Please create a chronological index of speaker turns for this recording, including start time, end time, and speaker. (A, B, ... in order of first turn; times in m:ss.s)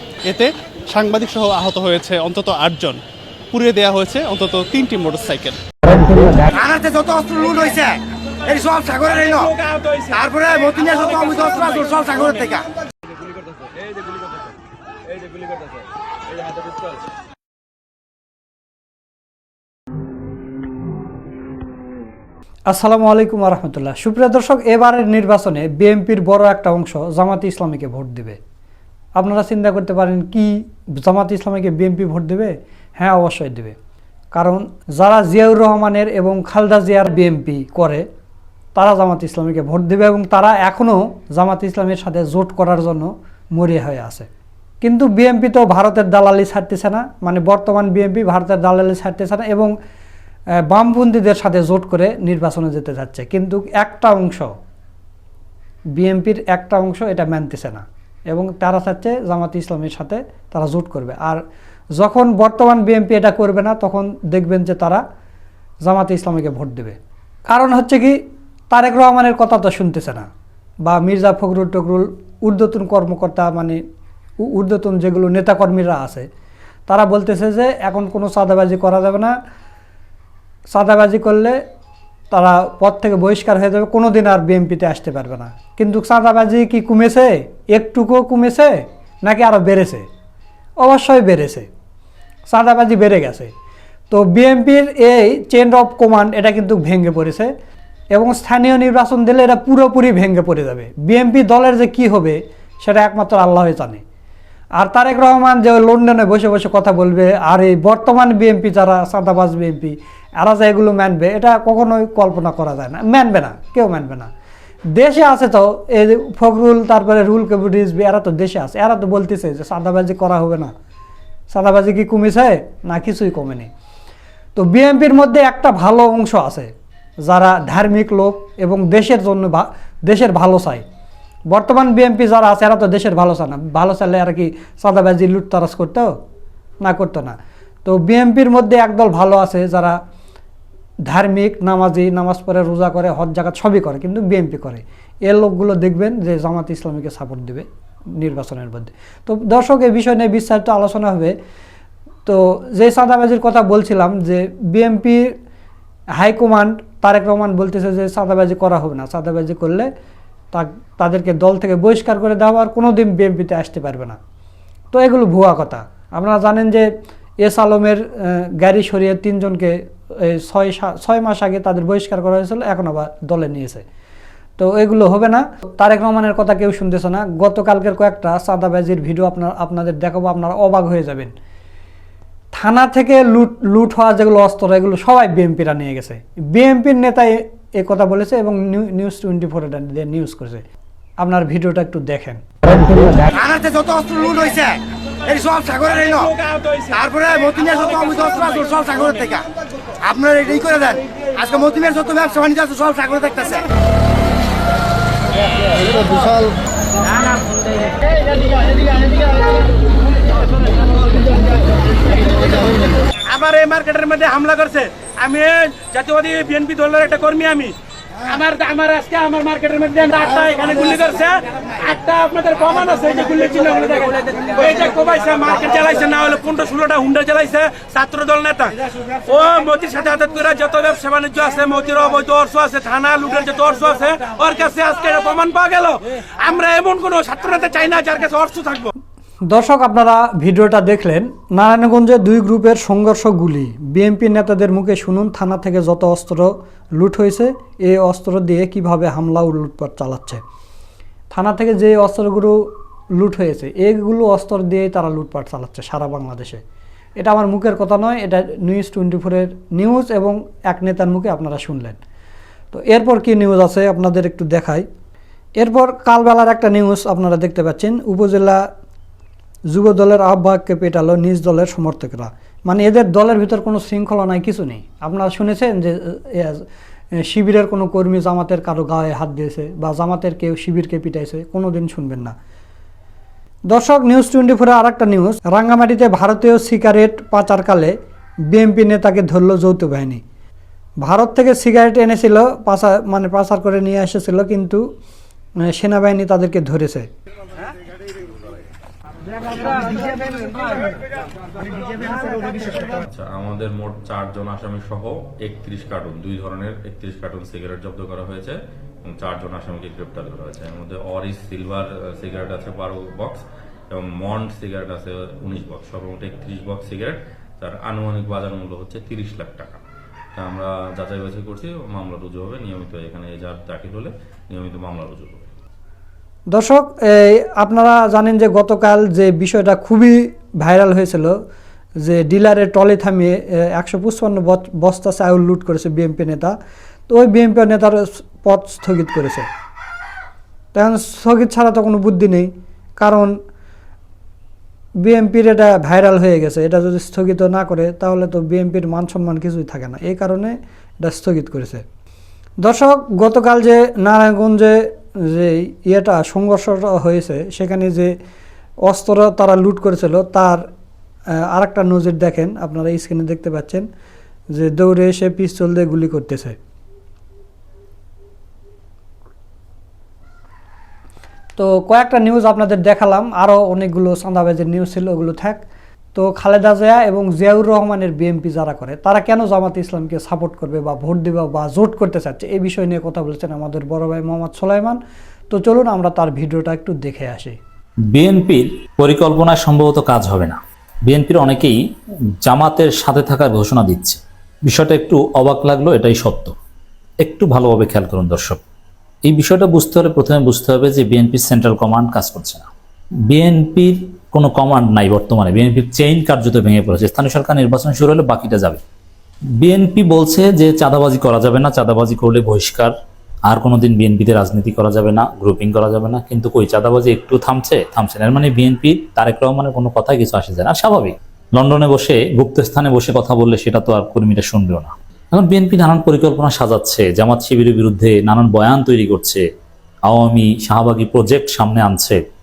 0:01.0-0:03.0 A
0:03.5-0:05.5 A
0:06.5-0:09.5 B
0:09.1-0:10.2 C
0:10.1-0:12.7 B
0:10.8-0:11.9 C
0:22.7-0:28.4 D
0:29.2-0:33.8 D
0:34.3-0:38.0 D
0:38.8-0:44.3 D
0:44.8-0:49.7 D
0:50.7-0:54.5 D
0:56.0-1:01.4 D
1:02.0-1:05.0 D
1:05.8-1:07.0 D
1:07.5-1:08.2 D
1:08.7-1:10.3 D
1:10.8-1:13.8 D
1:14.4-1:16.2 D
1:16.9-1:19.3 D
1:20.7-1:21.6 D
1:22.3-1:30.0 D
1:30.8-1:31.7 D
1:32.5-1:33.5 D
1:34.1-1:37.5 D
1:38.1-1:44.0 D
1:44.8-1:54.3 D
1:55.0-2:00.7 D
2:01.5-2:03.7 D
2:04.5-2:06.7 D
2:07.3-2:10.8 D
2:11.5-2:16.1 D
2:16.8-2:20.0 D
2:21.1-2:27.7 D
2:28.2-2:31.3 D
2:32.2-2:35.3 D
2:36.2-2:39.9 D
2:40.5-2:44.2 D
2:44.9-2:46.9 D
2:47.4-2:53.8 D
2:54.6-3:01.3 D
3:02.5-3:10.6 D
3:11.2-3:13.0 D
3:13.3-3:16.3 B
3:15.9-3:17.0 C
3:16.9-3:19.5 B
3:17.6-3:18.6 C
3:20.0-3:23.6 B
3:33.2-3:58.9 C
3:59.5-4:10.4 D
4:11.3-4:12.6 D
4:13.2-4:16.6 D
4:17.2-4:22.0 D
4:22.7-4:24.8 D
4:25.6-4:28.6 D
4:29.7-4:36.6 D
4:37.3-4:42.3 D
4:43.7-4:47.9 D
4:48.5-4:50.2 D
4:51.0-4:54.8 D
4:55.7-4:57.1 D
5:02.5-5:19.8 E
5:20.4-5:25.5 E
5:26.5-5:31.4 D
5:32.0-5:36.6 D
5:37.1-5:39.5 D
5:40.7-5:43.3 D
5:45.0-5:51.8 D
5:52.6-5:58.1 D
5:58.8-6:00.6 D
6:01.5-6:03.9 D
6:04.5-6:06.6 D
6:11.6-6:15.6 D
6:16.2-6:25.0 D
6:25.5-6:27.6 D
6:28.1-6:31.8 F
6:32.4-6:36.5 F
6:37.2-6:38.6 F
6:39.3-6:42.7 F
6:43.3-6:48.8 F
6:49.6-6:52.9 F
6:53.5-7:09.4 F
7:10.1-7:12.2 F